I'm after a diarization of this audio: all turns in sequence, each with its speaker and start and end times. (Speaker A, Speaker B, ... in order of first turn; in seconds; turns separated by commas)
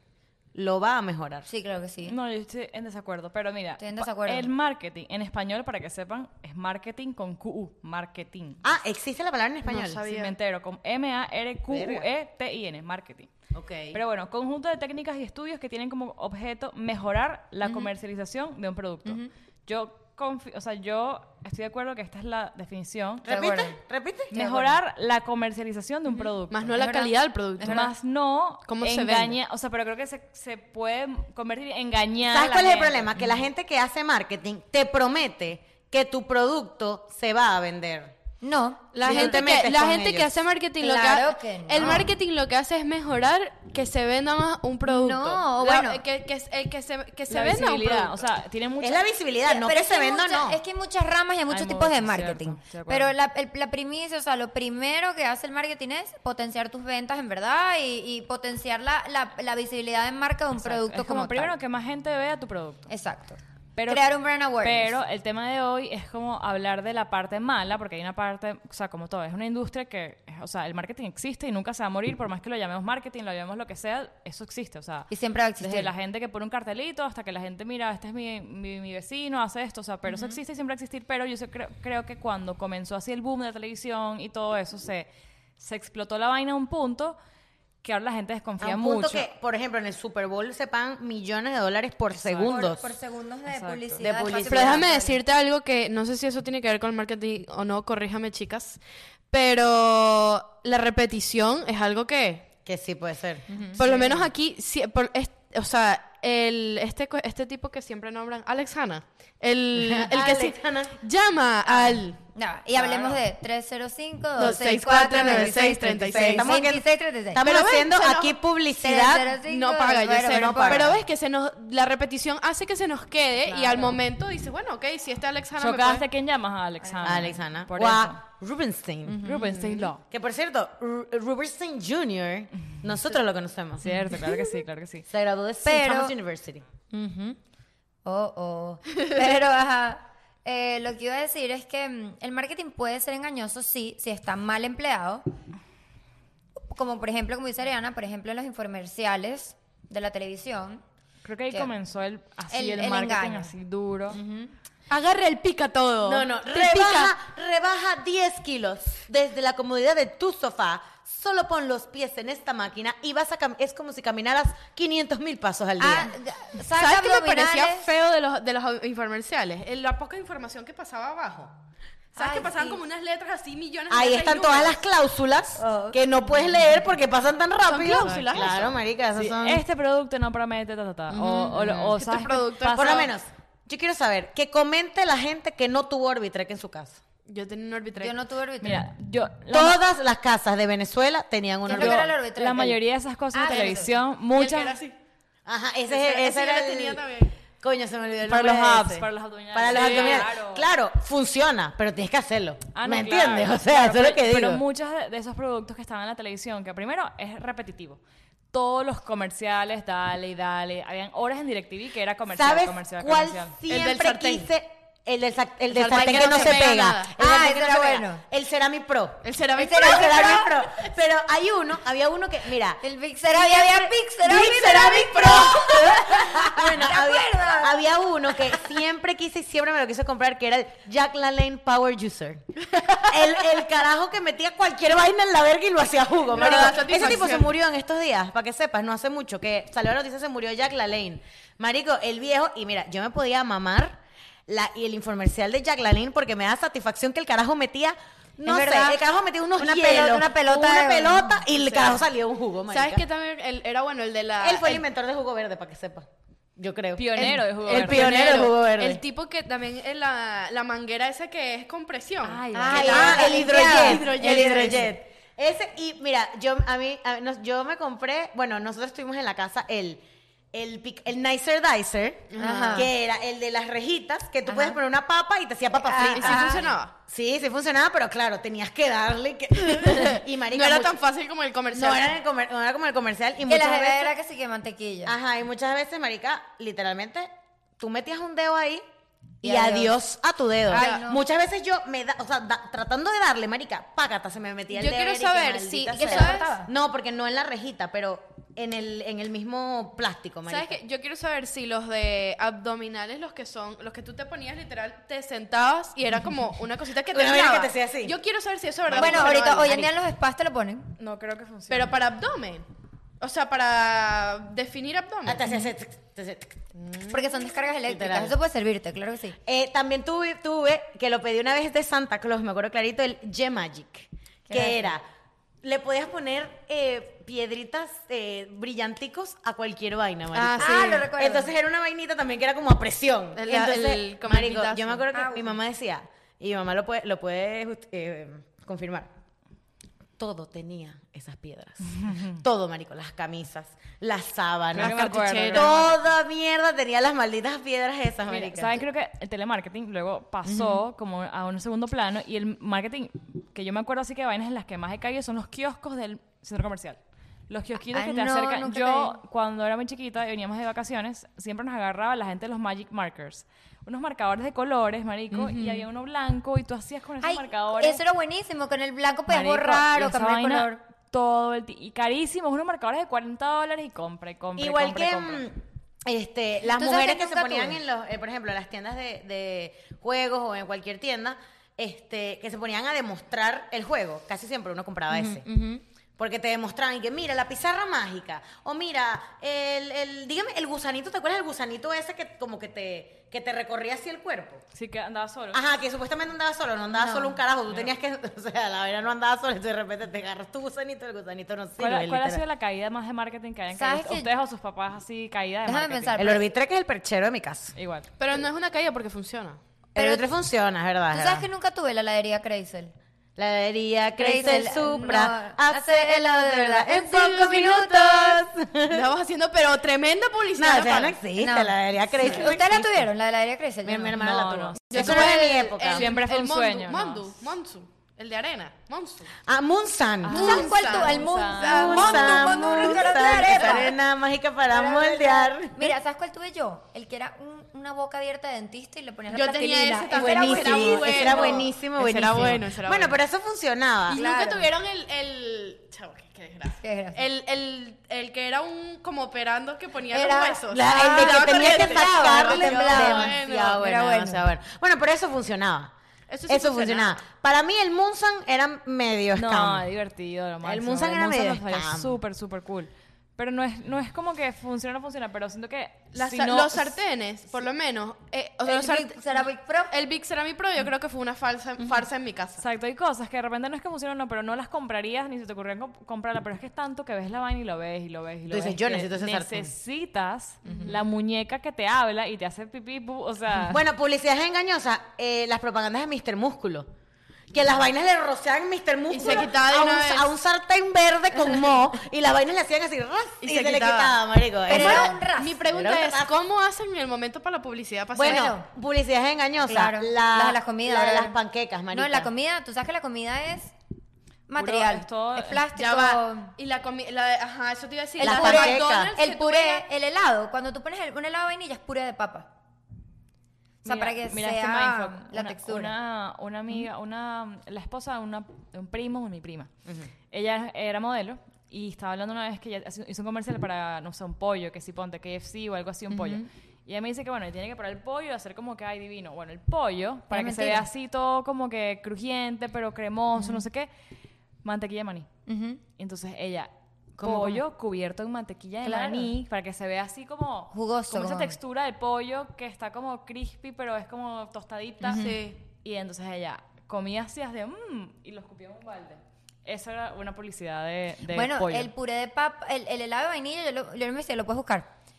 Speaker A: 0.5-1.5, Speaker B: 1.5-2.1, Speaker C: 2.0-8.6, Speaker B: 3.8-4.5, Speaker A: 8.6-10.1, Speaker D: 9.6-10.3, Speaker C: 10.1-13.3, Speaker A: 11.7-12.1, Speaker A: 13.5-14.0, Speaker C: 13.9-23.3, Speaker B: 17.6-17.9, Speaker B: 19.0-19.3, Speaker A: 23.2-24.3, Speaker B: 23.3-23.8, Speaker C: 24.3-26.8, Speaker B: 24.3-24.7, Speaker B: 26.1-27.9, Speaker D: 26.5-27.9, Speaker C: 27.6-33.2, Speaker D: 28.7-29.4, Speaker A: 32.2-38.1, Speaker B: 38.4-39.3, Speaker D: 38.9-48.3, Speaker A: 39.0-40.3, Speaker B: 40.8-42.1, Speaker B: 44.9-46.0, Speaker C: 47.3-49.0, Speaker A: 48.8-50.6, Speaker B: 49.5-61.5, Speaker C: 51.5-53.1, Speaker C: 60.5-62.9, Speaker B: 62.9-64.9, Speaker C: 63.8-87.2, Speaker B: 75.1-75.9, Speaker B: 80.1-80.4, Speaker C: 87.8-89.3, Speaker A: 88.6-92.9, Speaker C: 92.1-92.5, Speaker B: 92.5-95.2, Speaker C: 93.5-94.1, Speaker A: 94.0-94.9, Speaker D: 94.5-102.5, Speaker A: 102.6-104.0, Speaker B: 103.5-104.0, Speaker D: 103.8-112.2, Speaker A: 109.7-110.9, Speaker B: 111.7-117.4, Speaker D: 112.7-113.2, Speaker D: 114.3-116.5, Speaker A: 116.1-119.4, Speaker D: 117.4-118.3, Speaker B: 118.8-120.9, Speaker D: 119.5-126.0, Speaker A: 120.3-121.0, Speaker B: 123.5-124.0, Speaker C: 125.6-128.2, Speaker B: 126.8-127.3, Speaker A: 127.0-129.3, Speaker B: 129.1-129.9, Speaker C: 129.2-130.0, Speaker A: 130.0-134.1, Speaker C: 133.8-135.1, Speaker A: 135.1-136.6, Speaker B: 135.6-136.1, Speaker B: 136.9-137.4, Speaker B: 138.0-145.2, Speaker B: 146.6-150.8, Speaker C: 151.2-154.2, Speaker B: 152.5-153.5, Speaker B: 154.1-154.5, Speaker D: 154.9-157.1, Speaker A: 156.0-166.1, Speaker B: 165.8-167.9, Speaker D: 166.7-171.5, Speaker D: 172.1-174.8, Speaker B: 172.2-172.8, Speaker A: 173.9-179.6, Speaker B: 175.6-176.7, Speaker D: 177.7-178.7, Speaker C: 178.0-178.4, Speaker C: 179.1-183.1, Speaker A: 181.1-181.9, Speaker D: 181.9-183.1, Speaker A: 182.7-187.0, Speaker D: 187.3-188.1, Speaker B: 188.0-188.8, Speaker C: 188.6-189.8, Speaker A: 189.5-192.1, Speaker B: 191.7-192.8, Speaker C: 191.7-194.8, Speaker B: 193.3-193.9, Speaker D: 193.5-194.9, Speaker A: 195.4-204.6, Speaker D: 195.9-197.3, Speaker C: 198.2-200.7, Speaker D: 199.7-200.2, Speaker C: 202.7-208.0, Speaker C: 208.5-213.5, Speaker A: 212.3-253.0, Speaker D: 213.7-214.5, Speaker D: 215.7-217.1, Speaker B: 216.0-216.6, Speaker B: 217.1-218.2, Speaker D: 219.2-220.5, Speaker B: 219.6-220.4, Speaker B: 222.8-227.8, Speaker D: 224.2-226.0, Speaker D: 232.7-233.1, Speaker D: 236.3-237.5, Speaker B: 248.4-249.0, Speaker B: 249.6-251.9, Speaker D: 252.7-254.8, Speaker A: 254.4-259.0, Speaker C: 257.0-258.4, Speaker D: 257.7-264.9, Speaker C: 262.2-263.3, Speaker B: 262.5-264.6, Speaker A: 262.7-281.0, Speaker D: 272.3-272.9, Speaker B: 272.4-272.9, Speaker B: 274.4-274.8, Speaker B: 275.7-276.7, Speaker D: 276.1-276.9, Speaker D: 279.7-282.1, Speaker A: 281.7-284.1, Speaker B: 283.5-285.1, Speaker A: 285.0-288.8, Speaker A: 289.4-300.7, Speaker B: 289.4-289.9, Speaker B: 290.7-291.2, Speaker D: 290.7-291.1, Speaker D: 294.7-296.5, Speaker B: 295.9-296.7, Speaker D: 300.5-309.9, Speaker A: 307.1-308.1, Speaker A: 308.9-309.3, Speaker B: 308.9-310.9, Speaker C: 311.0-311.9, Speaker D: 311.7-312.7, Speaker D: 313.2-315.5, Speaker A: 315.2-316.6, Speaker D: 316.8-317.1, Speaker B: 317.1-319.4, Speaker A: 317.9-318.4, Speaker A: 319.4-325.0, Speaker B: 324.5-324.9, Speaker A: 325.6-339.1, Speaker D: 330.3-331.1, Speaker B: 330.5-331.5, Speaker D: 333.3-335.0, Speaker B: 335.1-335.5, Speaker A: 340.2-345.0, Speaker C: 342.0-342.2, Speaker C: 344.7-345.9, Speaker D: 344.7-345.7, Speaker A: 345.5-348.8, Speaker C: 348.3-368.0, Speaker B: 350.4-350.8, Speaker B: 357.9-359.1, Speaker B: 365.3-365.9, Speaker B: 367.2-370.8, Speaker C: 369.3-375.4, Speaker A: 374.6-385.4, Speaker B: 376.6-377.8, Speaker B: 385.1-385.8, Speaker A: 386.2-394.6, Speaker C: 394.7-395.6, Speaker A: 395.5-402.4, Speaker B: 396.9-397.4, Speaker C: 401.8-406.2, Speaker B: 403.7-404.3, Speaker B: 405.6-406.4, Speaker A: 406.2-407.8, Speaker C: 407.8-408.1, Speaker D: 408.2-409.6, Speaker A: 409.9-411.5, Speaker B: 409.9-410.3, Speaker B: 411.1-412.9, Speaker A: 413.4-419.1, Speaker B: 414.2-418.4, Speaker D: 418.9-421.2, Speaker A: 420.6-423.1, Speaker B: 421.4-424.2, Speaker A: 423.8-426.1, Speaker C: 424.1-425.3, Speaker D: 424.9-429.3, Speaker B: 424.9-425.3, Speaker C: 425.8-427.3, Speaker A: 429.4-430.7, Speaker C: 430.2-432.1, Speaker B: 430.3-434.0, Speaker D: 430.3-433.9, Speaker A: 431.5-435.9, Speaker B: 434.7-441.6, Speaker D: 439.3-443.2, Speaker A: 440.1-444.2, Speaker B: 444.1-444.7, Speaker D: 444.1-453.8, Speaker B: 446.8-447.2, Speaker B: 450.1-454.4, Speaker A: 450.7-455.9, Speaker D: 456.3-457.2, Speaker A: 456.5-459.9, Speaker C: 459.4-467.0, Speaker A: 460.6-462.2, Speaker D: 466.1-469.2, Speaker B: 468.6-469.9, Speaker D: 469.9-472.6, Speaker C: 472.6-483.8, Speaker A: 478.5-479.7, Speaker B: 480.6-480.9, Speaker A: 483.7-486.9, Speaker A: 487.5-496.3, Speaker D: 489.1-490.3, Speaker D: 493.4-494.1, Speaker B: 494.7-495.6, Speaker D: 494.7-498.5, Speaker A: 498.1-502.3, Speaker B: 498.2-498.6, Speaker B: 499.6-501.4, Speaker B: 501.9-503.7, Speaker B: 504.5-506.5, Speaker C: 504.6-505.6, Speaker D: 505.7-509.8, Speaker B: 508.2-512.5, Speaker A: 508.2-509.1, Speaker B: 513.8-515.9, Speaker C: 513.8-519.7, Speaker A: 519.9-520.1, Speaker C: 520.3-533.9, Speaker B: 526.1-526.4, Speaker B: 530.3-530.9, Speaker B: 533.4-533.6, Speaker C: 534.6-535.3, Speaker B: 535.5-535.8, Speaker C: 536.0-551.9, Speaker A: 537.2-537.5, Speaker B: 538.8-539.3, Speaker B: 540.7-541.5, Speaker B: 545.0-545.4, Speaker D: 545.1-545.6, Speaker B: 551.3-554.9